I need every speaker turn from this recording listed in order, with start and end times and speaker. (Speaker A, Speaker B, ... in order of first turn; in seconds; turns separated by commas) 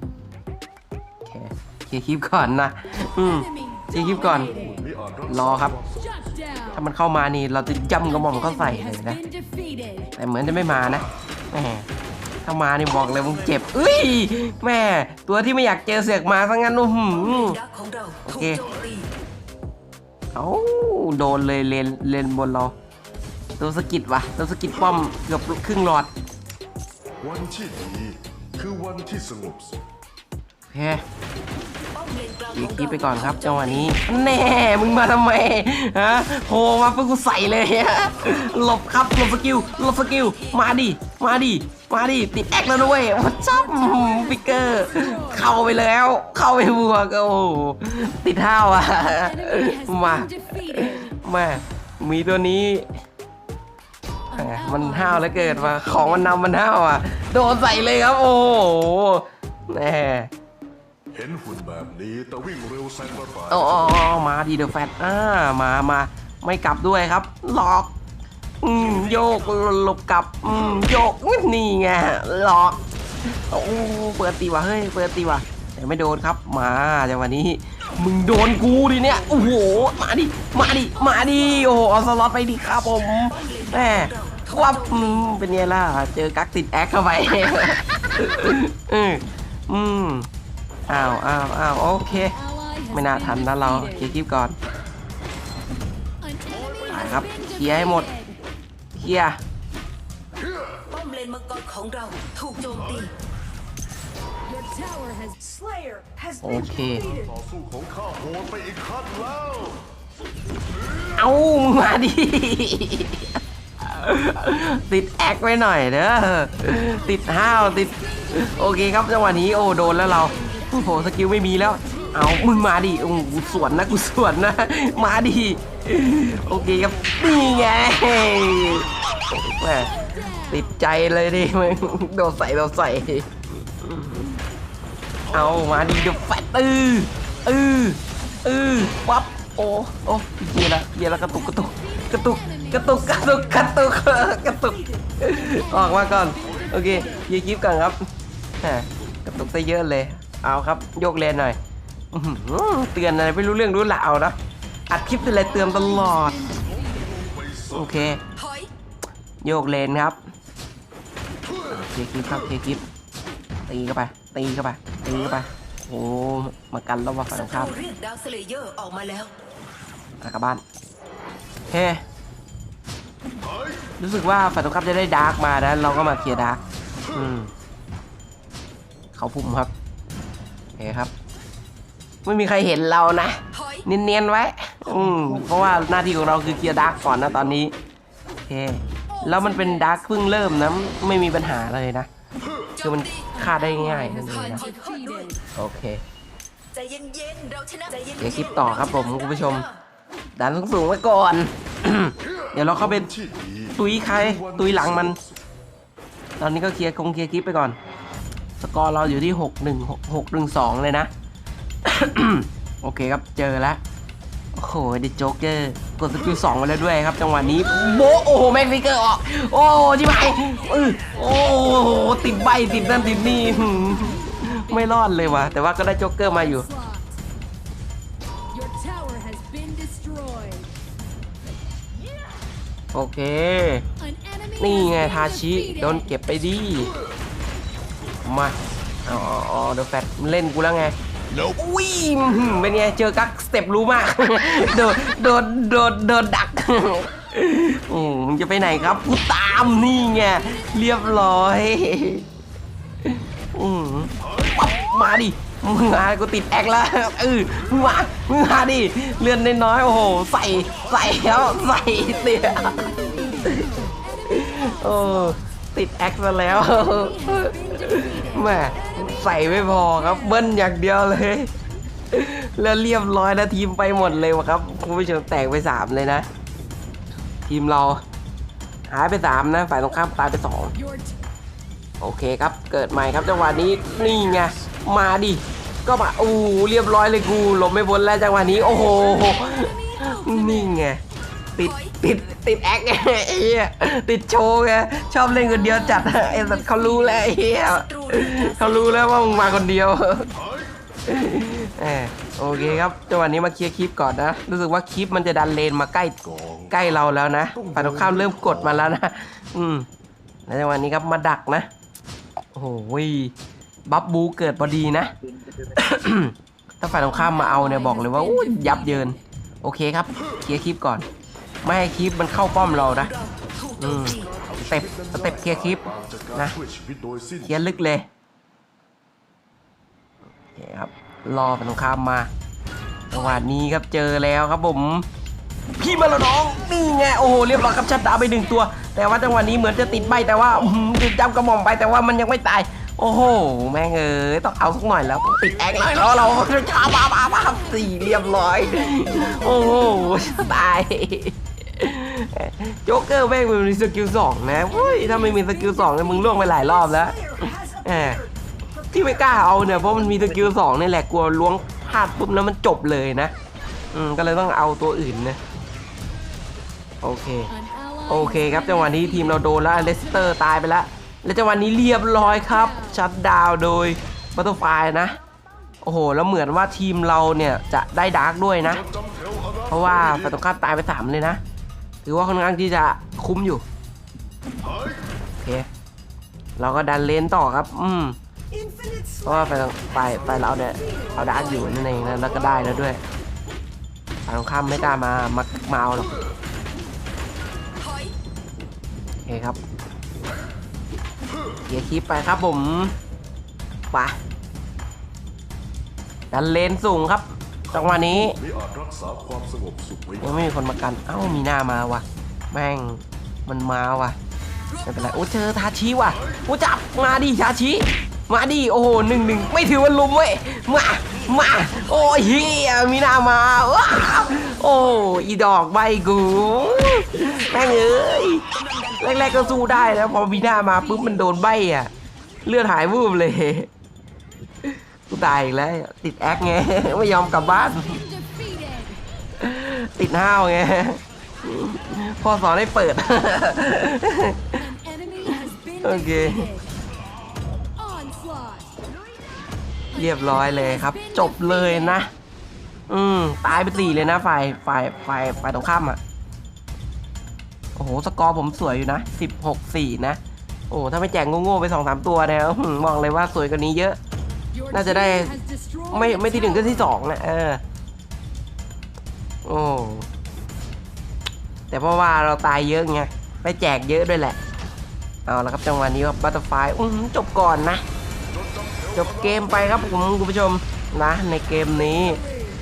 Speaker A: 1.2-4.5, Speaker B: 3.5-4.5, Speaker C: 4.1-6.0, Speaker A: 5.3-5.7, Speaker B: 6.1-6.7, Speaker A: 6.7-9.2, Speaker B: 8.2-10.1, Speaker A: 10.2-11.9, Speaker A: 12.4-17.6, Speaker D: 17.2-19.1, Speaker A: 18.2-18.6, Speaker A: 20.3-22.7, Speaker A: 23.6-26.1, Speaker C: 27.2-29.8, Speaker A: 30.7-31.0, Speaker D: 31.9-34.1, Speaker A: 32.5-52.9, Speaker D: 39.4-40.6, Speaker B: 43.5-45.4, Speaker B: 49.1-51.1, Speaker A: 54.3-60.3, Speaker B: 54.4-56.0, Speaker C: 61.1-64.0, Speaker A: 63.5-67.9, Speaker A: 68.6-90.3, Speaker D: 83.3-85.2, Speaker A: 90.9-92.4, Speaker B: 92.4-93.8, Speaker A: 92.9-94.5, Speaker B: 96.2-98.3, Speaker A: 96.9-98.1, Speaker A: 99.0-99.4, Speaker D: 100.9-103.1, Speaker B: 104.5-105.5, Speaker D: 105.5-106.4, Speaker A: 106.4-107.0, Speaker C: 107.0-109.9, Speaker A: 111.2-129.9, Speaker B: 118.2-118.8, Speaker B: 119.5-121.0, Speaker B: 121.8-123.8, Speaker A: 130.5-134.4, Speaker A: 135.3-148.1, Speaker B: 141.4-143.4, Speaker B: 145.5-147.2, Speaker A: 148.6-151.6, Speaker A: 152.1-154.4, Speaker A: 154.9-156.5, Speaker B: 155.6-157.1, Speaker C: 156.7-158.0, Speaker A: 157.7-158.2, Speaker D: 158.3-158.7, Speaker A: 159.4-160.2, Speaker A: 161.7-162.8, Speaker A: 163.7-167.7, Speaker D: 167.3-169.3, Speaker A: 170.2-170.6, Speaker A: 171.7-172.0, Speaker A: 174.0-176.6, Speaker A: 177.1-177.5, Speaker A: 179.1-179.7, Speaker A: 180.8-181.1, Speaker A: 182.2-187.7, Speaker A: 188.4-192.1, Speaker B: 189.3-190.0, Speaker A: 192.8-194.6, Speaker D: 192.8-193.3, Speaker B: 193.9-195.4, Speaker D: 194.5-195.3, Speaker A: 195.5-196.0, Speaker D: 196.7-199.7, Speaker A: 198.2-199.7, Speaker A: 200.3-203.1, Speaker C: 202.8-205.4, Speaker A: 203.8-205.2, Speaker A: 206.4-207.8, Speaker A: 208.6-211.1, Speaker A: 211.8-213.8, Speaker A: 214.5-226.7, Speaker B: 226.6-227.1, Speaker B: 228.5-230.7, Speaker A: 232.9-233.8, Speaker B: 234.1-236.0, Speaker A: 234.6-236.9, Speaker A: 238.2-252.2, Speaker A: 253.0-271.5, Speaker B: 264.1-265.4, Speaker B: 266.7-270.1, Speaker A: 272.1-276.3, Speaker A: 277.4-278.0, Speaker A: 278.9-280.7, Speaker A: 282.0-291.0, Speaker B: 288.8-290.7, Speaker A: 291.6-300.3, Speaker D: 291.6-291.9, Speaker B: 295.6-297.4, Speaker D: 297.5-299.6, Speaker C: 300.4-300.7, Speaker A: 301.1-306.2, Speaker C: 306.2-306.7, Speaker A: 306.7-309.9, Speaker C: 307.5-308.9, Speaker A: 310.5-311.7, Speaker A: 312.5-313.3, Speaker A: 313.9-321.1, Speaker B: 317.2-319.0, Speaker A: 321.6-323.1, Speaker D: 322.8-324.3, Speaker A: 323.8-326.5, Speaker C: 324.2-327.6, Speaker A: 327.4-328.1, Speaker A: 330.5-332.3, Speaker A: 333.1-335.1, Speaker A: 335.8-358.2, Speaker B: 347.8-348.1, Speaker B: 348.9-349.5, Speaker B: 354.9-356.4, Speaker A: 358.9-363.3, Speaker A: 363.9-365.4, Speaker A: 367.0-367.5, Speaker B: 367.5-369.5, Speaker A: 368.1-375.2, Speaker A: 375.8-378.8, Speaker C: 378.8-380.4, Speaker A: 379.7-381.4, Speaker A: 382.0-383.6, Speaker C: 384.6-385.0, Speaker A: 385.4-385.7, Speaker A: 386.6-388.2, Speaker A: 389.2-393.0, Speaker A: 394.2-396.1, Speaker D: 397.8-398.1, Speaker A: 399.2-399.6, Speaker A: 401.7-402.9, Speaker A: 403.9-404.2, Speaker A: 406.3-408.4, Speaker C: 407.7-410.4, Speaker A: 410.2-414.1, Speaker A: 414.8-431.9, Speaker D: 427.3-429.5, Speaker B: 429.9-430.7, Speaker A: 432.4-433.7, Speaker A: 434.6-438.0, Speaker B: 437.8-439.0, Speaker A: 439.4-444.7, Speaker B: 444.7-446.6, Speaker A: 445.2-446.5, Speaker B: 447.8-448.7, Speaker A: 449.9-452.1, Speaker B: 450.9-452.0, Speaker A: 452.9-456.0, Speaker A: 457.7-460.2, Speaker A: 460.7-464.0, Speaker B: 464.6-466.7, Speaker A: 464.7-465.4, Speaker A: 465.9-467.6, Speaker A: 469.4-470.1, Speaker A: 471.7-474.4, Speaker A: 475.2-477.8, Speaker C: 478.3-479.8, Speaker A: 478.9-482.2